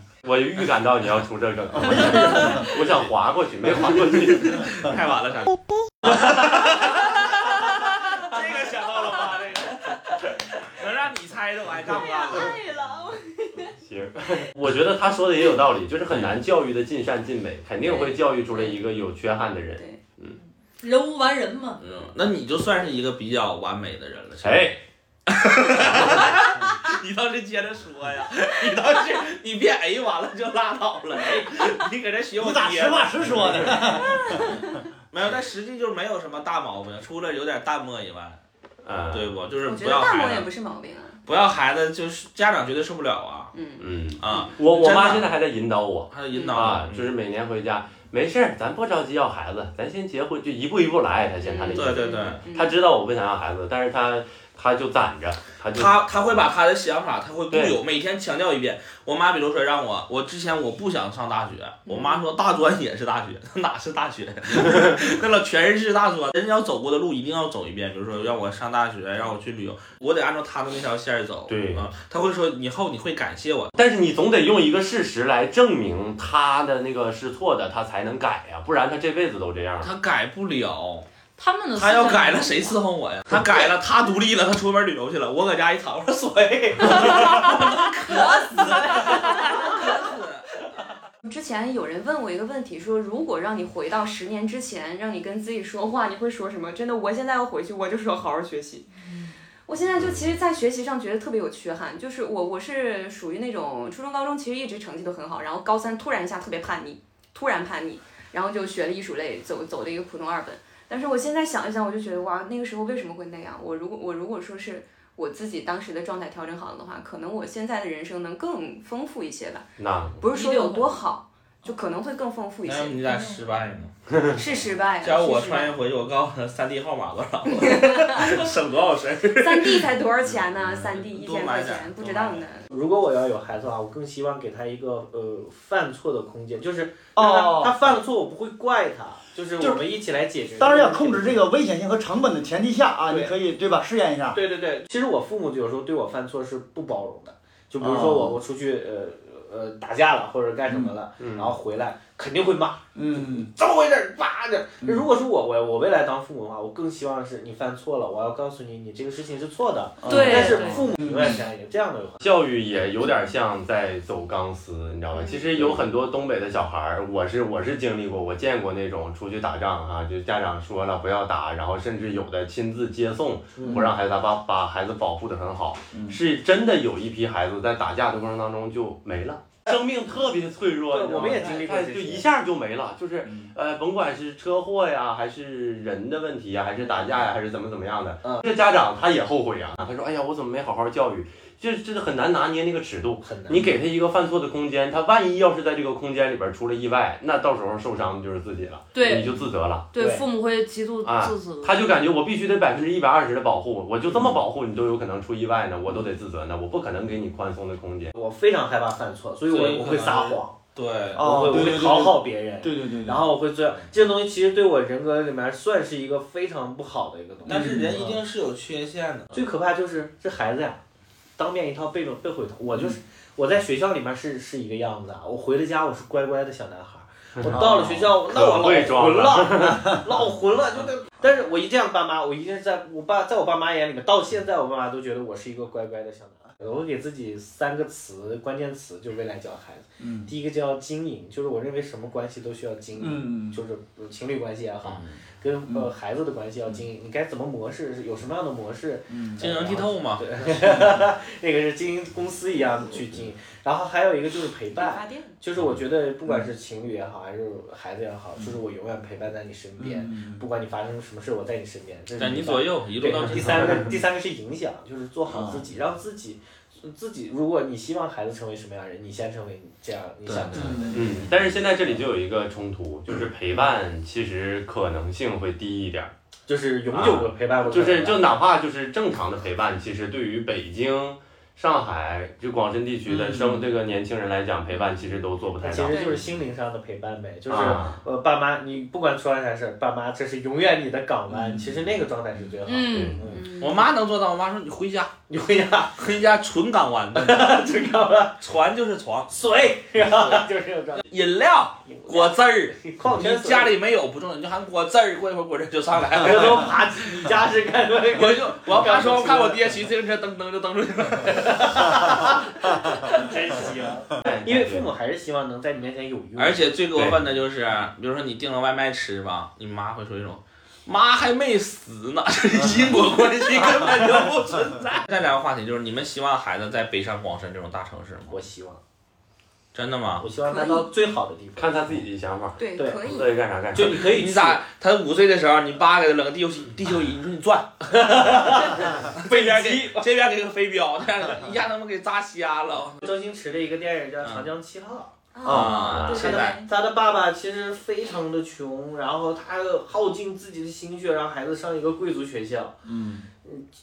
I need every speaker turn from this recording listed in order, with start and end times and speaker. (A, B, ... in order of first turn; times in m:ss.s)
0:00.2-0:04.9 A
0:02.0-0:02.4 B
0:02.1-0:03.1 C
0:03.8-0:12.6 C
0:09.0-0:09.4 D
0:11.8-0:13.7 E
0:13.8-0:20.4 A
0:16.1-0:16.4 C
0:17.8-0:18.8 E
0:19.5-0:20.0 E
0:20.8-0:21.8 F
0:21.8-0:24.7 C
0:24.4-0:24.8 A
0:25.3-0:34.6 C
0:26.0-0:26.2 A
0:32.4-0:34.6 B
0:33.9-0:34.5 E
0:35.1-0:38.4 C
0:38.8-0:39.3 A
0:39.1-0:40.5 C
0:39.6-0:41.2 E
0:41.2-0:43.5 C
0:43.5-0:44.5 E
0:43.8-0:56.4 A
0:44.2-0:45.3 C
0:46.1-0:47.1 C
0:46.3-0:46.7 E
0:51.4-0:52.8 E
0:51.7-0:52.4 C
0:55.7-1:13.7 C
0:57.5-0:57.8 A
1:01.9-1:02.3 E
1:11.5-1:11.9 A
1:13.7-1:19.9 A
1:19.8-1:21.1 C
1:21.4-1:22.8 F
1:21.8-1:30.5 C
1:26.9-1:27.6 E
1:28.1-1:30.0 E
1:28.1-1:29.5 F
1:31.2-1:38.9 E
1:39.1-1:39.4 F
1:39.6-2:03.0 E
1:39.9-1:40.3 A
1:59.8-2:00.2 A
2:00.2-2:01.0 F
2:02.6-2:03.9 C
2:03.0-2:03.6 F
2:04.1-2:04.4 A
2:04.3-2:05.7 E
2:05.0-2:09.9 C
2:07.5-2:08.5 E
2:09.4-2:12.7 E
2:11.1-2:12.4 C
2:12.7-2:21.4 D
2:17.2-2:17.9 B
2:19.6-2:19.8 B
2:20.6-2:24.4 B
2:23.1-2:23.3 D
2:24.3-2:42.3 D
2:27.8-2:28.4 B
2:30.7-2:30.9 B
2:31.2-2:31.5 A
2:32.9-2:33.5 B
2:40.0-2:41.4 B
2:40.0-2:40.9 F
2:42.2-3:19.9 A
2:45.1-2:45.8 E
2:53.6-2:53.9 D
2:55.9-2:56.2 B
3:00.9-3:02.3 D
3:03.2-3:03.5 B
3:13.2-3:13.7 D
3:18.9-3:19.4 F
3:19.9-3:21.9 F
3:20.0-3:20.2 D
3:21.0-3:28.1 A
3:28.1-3:30.6 D
3:29.5-3:31.7 C
3:31.1-3:33.3 B
3:31.2-3:38.2 D
3:37.4-3:39.3 C
3:37.5-3:38.0 B
3:39.3-3:40.8 D
3:41.4-4:31.9 D
3:47.4-3:50.0 A
4:00.0-4:00.3 B
4:03.0-4:03.6 B
4:04.8-4:05.2 C
4:09.1-4:09.4 B
4:09.4-4:10.2 C
4:14.7-4:15.4 E
4:19.8-4:20.4 B
4:22.2-4:23.8 C
4:25.3-4:25.6 B
4:30.2-4:30.8 C
4:30.5-4:31.1 B
4:30.9-4:36.1 A
4:36.5-4:38.3 D
4:36.9-4:46.2 A
4:43.1-4:43.7 B
4:44.7-4:45.0 E
4:45.6-4:53.5 D
4:45.9-4:46.2 E
4:47.5-4:48.0 A
4:51.3-4:51.9 B
4:52.6-4:53.3 F
4:52.9-4:53.2 A
4:53.3-4:53.9 E
4:53.4-4:55.1 C
4:55.3-4:56.0 D
4:56.0-4:57.7 C
4:57.1-4:58.4 D
4:58.4-4:59.4 C
4:59.3-5:01.1 D
5:00.0-5:00.4 C
5:01.0-5:06.9 C
5:01.9-5:03.7 D
5:06.2-5:09.6 D
5:08.1-5:12.3 C
5:11.2-5:16.7 D
5:14.2-5:14.9 A
5:16.4-5:28.3 C
5:28.3-5:28.8 D
5:29.7-5:30.3 C
5:30.2-5:32.0 D
5:30.4-5:30.9 E
5:31.6-5:34.1 A
5:32.6-5:33.4 E
5:32.8-5:33.0 D
5:33.7-5:34.6 D
5:33.9-5:43.0 C
5:37.9-5:40.1 D
5:43.0-5:45.1 D
5:45.3-5:46.7 E
5:45.4-5:46.0 B
5:45.4-5:46.6 C
5:45.9-5:46.3 A
5:46.1-5:52.7 D
5:52.8-5:53.2 B